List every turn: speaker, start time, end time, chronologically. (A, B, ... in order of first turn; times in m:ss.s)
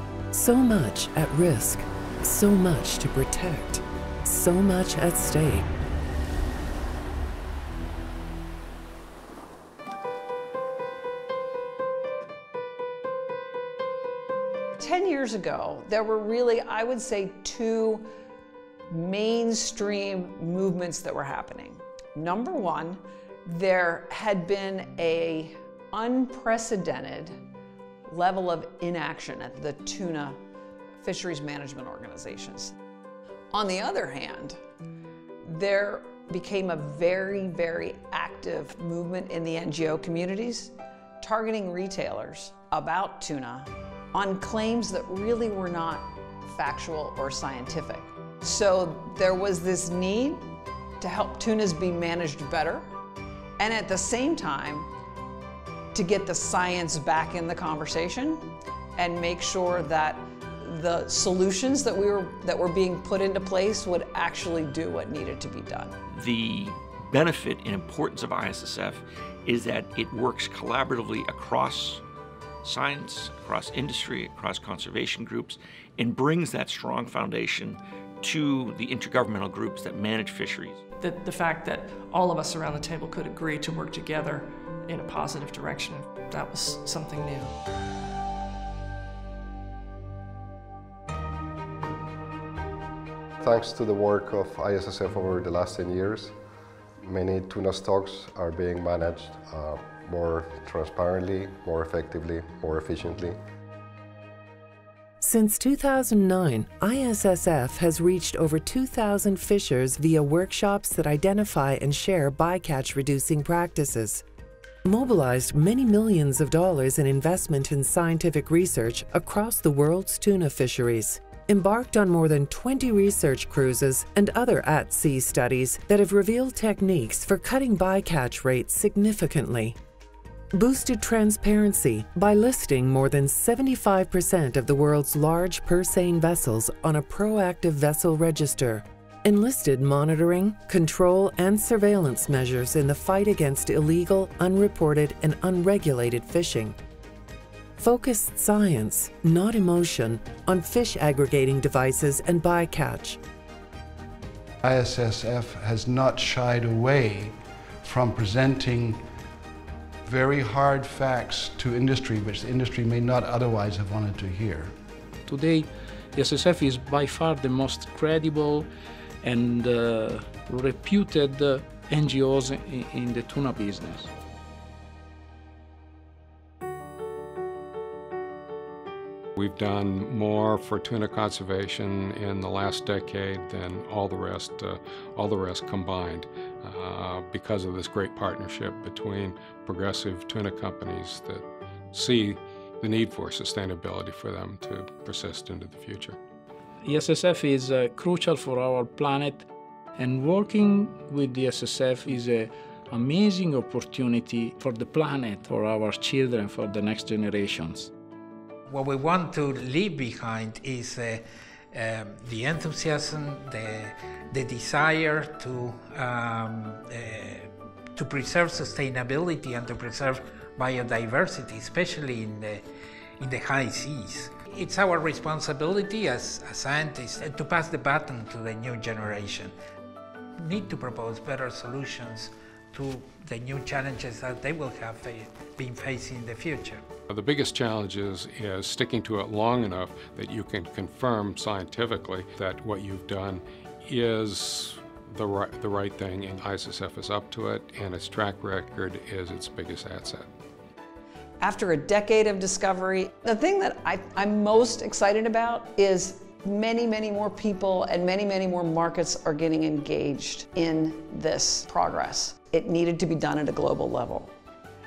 0:00.3-0:05.7 A
0:14.8-0:18.1 B
0:18.9-0:27.4 B
0:28.1-0:30.4 B
0:31.0-0:32.7 B
0:33.5-0:34.6 B
0:35.4-0:52.9 B
0:53.6-0:54.9 B
0:55.9-1:05.9 B
1:06.1-1:12.0 C
1:12.6-1:20.8 C
1:21.0-1:27.5 D
1:33.4-1:36.4 E
1:37.0-1:43.4 E
1:45.2-1:54.2 A
1:54.8-2:09.8 A
2:10.5-2:26.8 A
2:27.8-2:33.2 A
2:34.6-2:39.0 F
2:40.1-2:44.7 F
2:45.3-2:48.7 G
2:49.2-2:54.1 G
2:59.4-3:16.2 H
3:16.8-3:19.5 G
3:20.0-3:27.9 G
3:28.7-3:42.6 I
3:43.2-3:49.5 I
3:50.4-3:56.8 I
3:57.1-4:10.3 H
4:11.4-4:24.3 B